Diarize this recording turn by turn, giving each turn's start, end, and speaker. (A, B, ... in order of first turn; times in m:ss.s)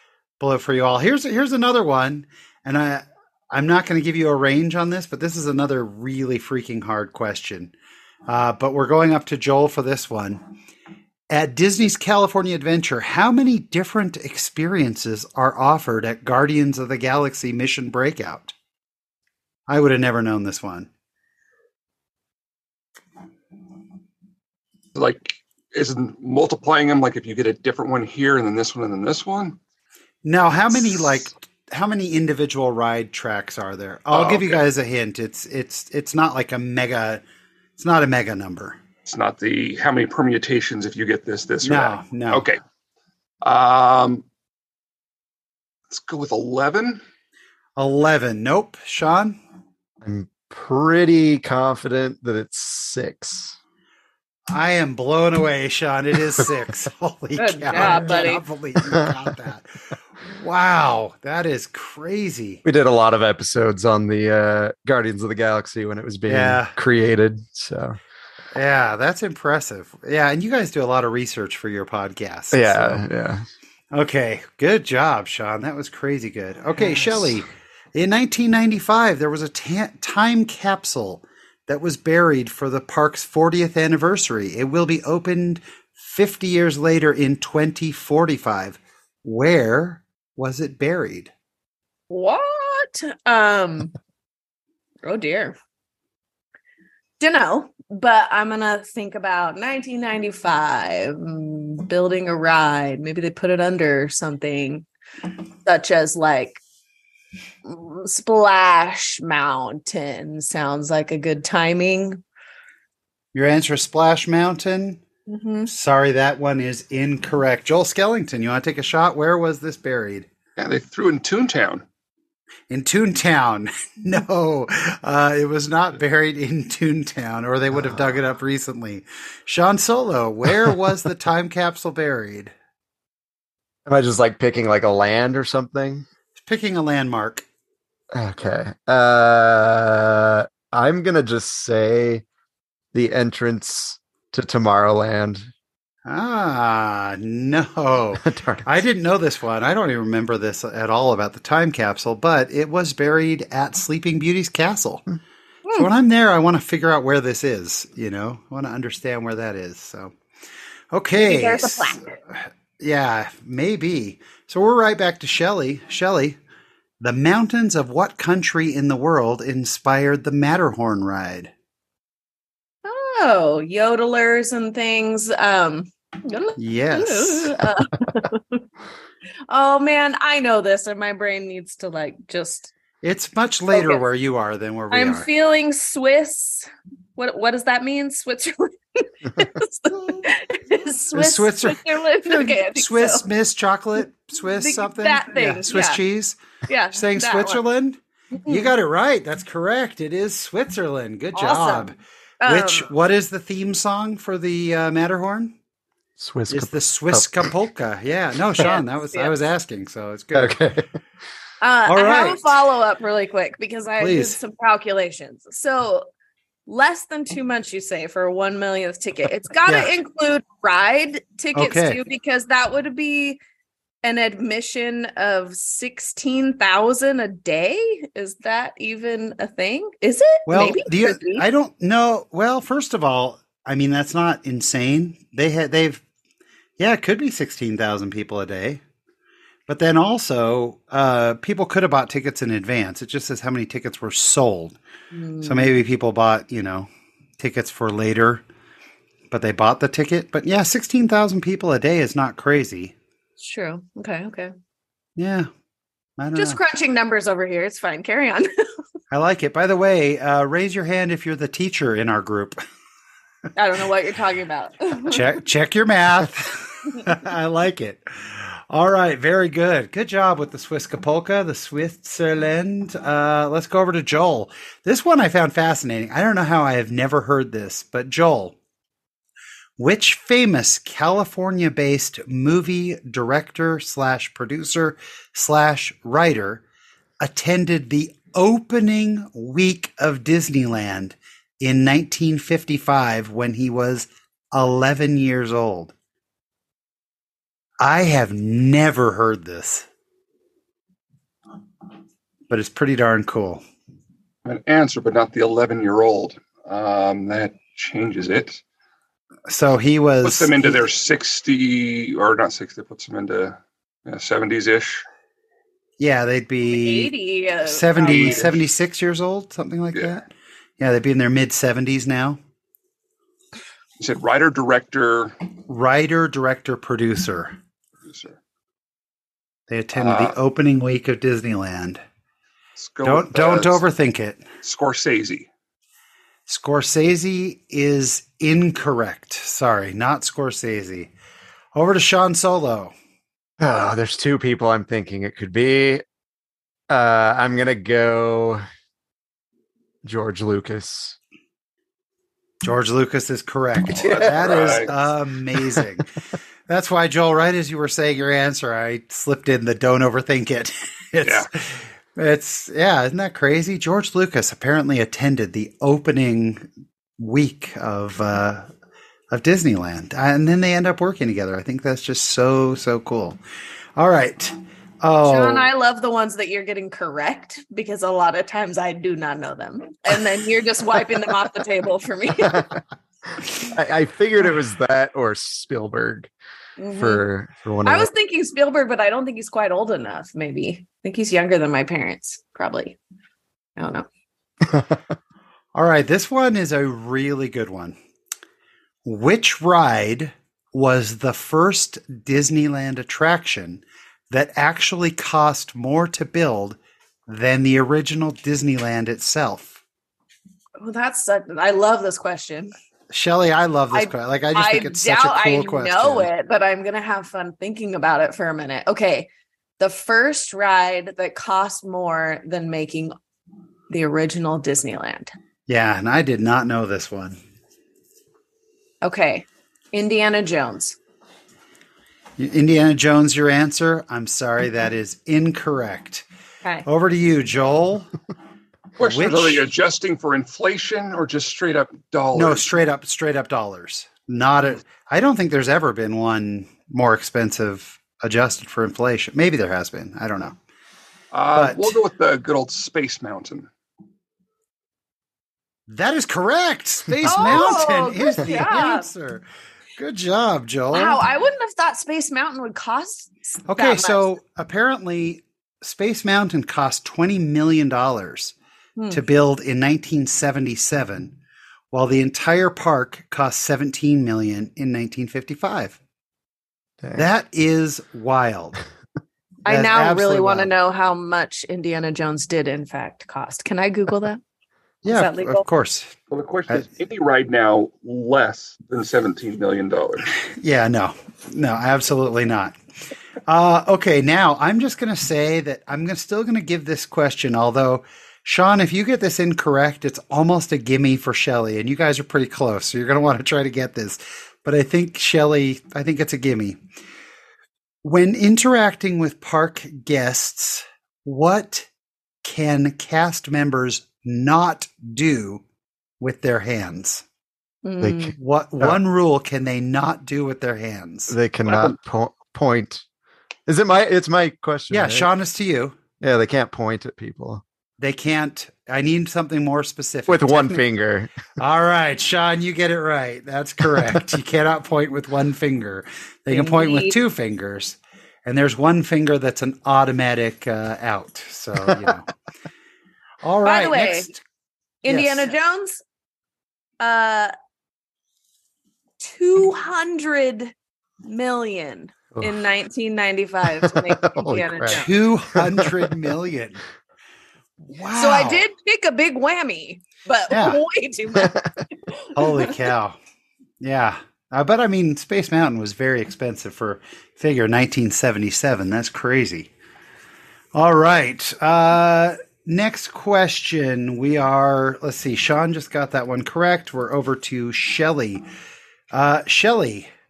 0:00.4-0:07.7 A
0:08.3-0:10.4 A
0:11.3-0:18.5 A
0:19.7-0:20.9 A
0:24.9-0:29.6 B
0:30.2-0:37.2 A
0:34.1-0:34.6 B
0:37.8-0:38.8 A
0:39.1-0:42.6 B
0:41.6-0:42.4 A
0:43.4-0:44.2 B
0:45.9-0:47.0 B
0:47.8-0:49.4 A
0:50.0-0:53.6 C
0:54.5-1:02.6 A
0:57.4-0:58.4 D
0:57.8-0:58.2 C
0:58.8-0:59.1 C
1:02.6-1:08.0 C
1:06.3-1:06.7 A
1:08.5-1:13.0 A
1:12.5-1:13.5 C
1:13.9-1:31.3 A
1:32.1-1:33.9 D
1:35.0-1:35.6 D
1:37.2-1:44.8 D
1:45.6-1:46.6 D
1:47.6-1:52.2 D
1:53.3-1:55.0 A
1:55.3-1:55.7 D
1:55.7-2:00.3 A
2:00.6-2:01.8 B
2:02.7-2:12.5 A
2:13.8-2:16.0 C
2:16.3-2:17.4 A
2:18.1-2:22.2 C
2:22.9-2:25.5 C
2:26.0-2:35.0 A
2:28.2-2:28.6 C
2:35.7-2:40.1 A
2:40.9-2:46.4 A
2:41.2-2:42.1 D
2:47.0-2:51.5 A
2:52.8-2:58.6 D
2:56.6-2:57.6 A
2:59.5-3:02.7 D
3:03.0-3:05.3 A
3:03.7-3:04.0 D
3:04.9-3:13.2 D
3:09.9-3:10.3 A
3:11.1-3:16.4 A
3:14.6-3:16.0 D
3:16.7-3:17.6 D
3:16.9-3:25.6 A
3:18.4-3:18.7 D
3:21.3-3:22.9 D
3:26.2-3:27.5 C
3:26.5-3:30.6 A
3:28.6-3:29.4 D
3:30.3-3:30.8 C
3:31.6-3:36.0 D
3:31.8-3:32.5 A
3:34.0-3:34.4 A
3:36.7-3:43.4 D
3:39.7-3:40.0 A
3:41.5-3:42.0 A
3:44.0-3:51.4 D
3:50.5-3:56.0 A
3:56.8-3:58.8 A
3:59.7-4:04.8 A
4:05.1-4:05.7 D
4:05.4-4:08.4 A
4:09.3-4:12.9 A
4:13.4-4:14.5 D
4:15.2-4:15.5 A
4:16.2-4:16.6 A
4:16.3-4:18.5 D
4:19.1-4:22.6 A
4:23.5-4:25.2 D
4:25.0-4:38.5 A
4:39.8-4:46.6 A
4:47.2-4:55.9 A
4:57.8-4:59.9 A
5:02.5-5:03.6 A
5:04.4-5:08.6 B
5:09.5-5:10.9 A
5:10.2-5:15.0 B
5:16.0-5:17.1 A
5:16.7-5:18.4 D
5:17.6-5:22.4 A
5:18.0-5:18.6 B
5:24.0-5:25.4 B
5:25.7-5:27.5 A
5:28.0-5:28.4 B
5:29.7-5:32.0 A
5:29.9-5:30.3 B
5:32.8-5:33.8 B
5:33.0-5:34.4 A
5:34.6-5:35.5 B
5:36.5-5:41.1 A
5:41.7-5:42.9 A
5:43.6-5:46.0 C
5:46.9-5:48.6 C
5:50.0-5:51.2 C
5:52.6-5:56.1 A
5:54.0-5:54.9 B
5:54.0-5:54.8 C
5:56.7-6:06.7 A
6:01.2-6:01.5 B
6:07.2-6:08.7 A
6:09.3-6:13.4 A
6:14.0-6:15.7 A
6:15.2-6:22.6 D
6:22.4-6:22.8 C
6:23.4-6:26.3 C
6:26.8-6:27.2 D
6:27.0-6:28.1 C
6:27.8-6:33.0 D
6:33.8-6:34.1 D
6:34.7-6:35.0 C
6:35.7-6:38.0 A
6:39.0-6:49.8 A
6:50.8-6:52.7 D
6:53.1-6:56.3 A
6:53.9-7:03.1 D
7:03.9-7:05.3 D
7:05.7-7:07.4 A
7:09.0-7:11.0 D
7:12.4-7:16.2 A
7:16.8-7:18.1 A
7:19.0-7:22.7 B
7:19.0-7:19.6 A
7:22.3-7:30.6 A
7:31.3-7:33.7 B
7:31.5-7:32.0 A
7:35.9-7:39.4 A
7:37.2-7:39.1 D
7:40.0-7:41.2 A
7:40.9-7:44.2 D
7:43.7-7:48.5 A
7:49.0-7:49.2 D
7:49.1-7:51.4 A
7:51.9-7:56.0 A
7:57.0-7:57.3 C
7:57.1-7:58.8 A
7:59.6-8:00.7 A
7:59.6-8:04.4 D
8:05.0-8:06.2 A
8:05.0-8:05.6 D
8:06.3-8:10.3 B
8:10.5-8:12.7 A
8:13.5-8:26.8 A
8:28.0-8:31.9 A
8:32.4-8:35.6 A
8:36.2-8:37.2 A
8:37.8-8:38.3 D
8:38.0-8:39.0 C
8:38.4-8:41.3 A
8:41.3-8:43.0 C
8:41.7-8:42.0 B
8:43.7-8:45.3 C
8:44.9-8:46.0 A
8:46.2-8:47.6 C
8:48.0-8:50.8 A
8:50.3-8:51.3 C
8:51.6-9:02.3 A
8:56.5-8:57.2 D
9:03.4-9:04.4 A
9:03.6-9:04.3 D
9:05.0-9:06.0 D
9:05.0-9:05.5 A
9:07.0-9:07.5 D
9:09.2-9:15.1 D
9:13.8-9:15.9 C
9:14.9-9:16.8 A
9:17.9-9:18.7 A
9:18.1-9:22.7 D
9:20.5-9:20.8 A
9:21.4-9:21.6 C
9:22.3-9:23.2 A
9:23.8-9:29.7 A
9:30.7-9:38.4 A
9:39.1-9:40.1 A